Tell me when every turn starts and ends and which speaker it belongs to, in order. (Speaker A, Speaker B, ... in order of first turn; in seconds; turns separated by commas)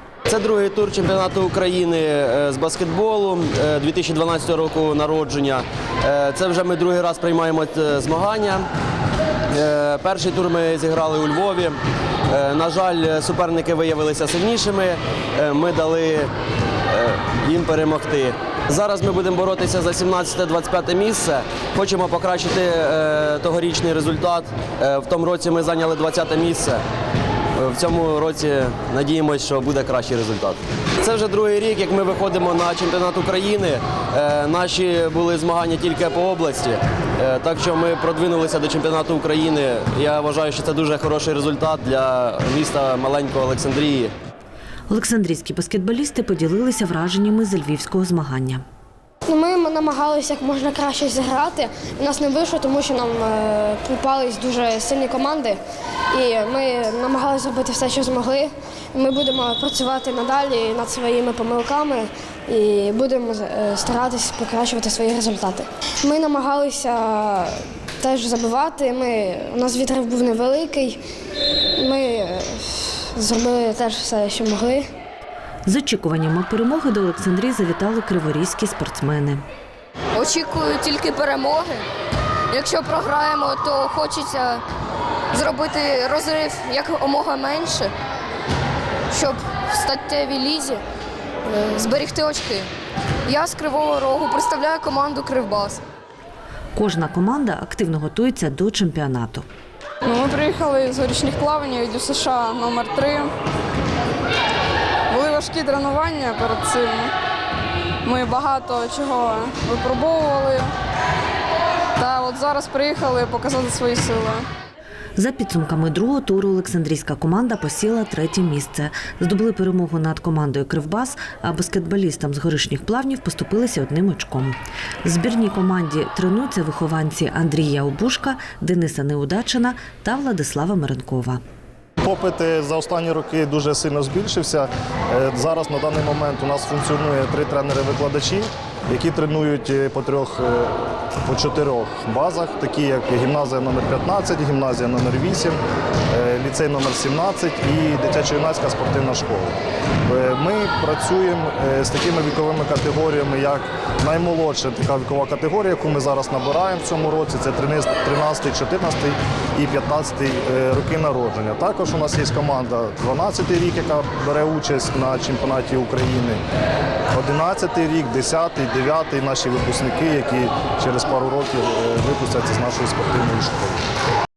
Speaker A: 0.3-8.7, Speaker A: 9.5-11.8, Speaker A: 12.3-16.3, Speaker A: 16.9-26.8, Speaker A: 27.6-44.1, Speaker B: 44.9-48.6, Speaker C: 49.3-55.6, Speaker C: 56.1-71.0, Speaker C: 71.8-74.9, Speaker B: 75.7-79.4, Speaker D: 80.1-81.8, Speaker D: 82.5-84.6, Speaker D: 85.3-87.9, Speaker D: 89.1-90.8, Speaker D: 91.5-92.7, Speaker D: 93.3-95.8, Speaker B: 96.7-99.4, Speaker E: 100.0-103.3, Speaker E: 105.1-107.1, Speaker E: 108.0-110.7, Speaker E: 112.0-114.5, Speaker B: 115.2-131.4, Speaker F: 132.0-145.6, Speaker F: 146.1-166.4, Speaker F: 167.1-173.8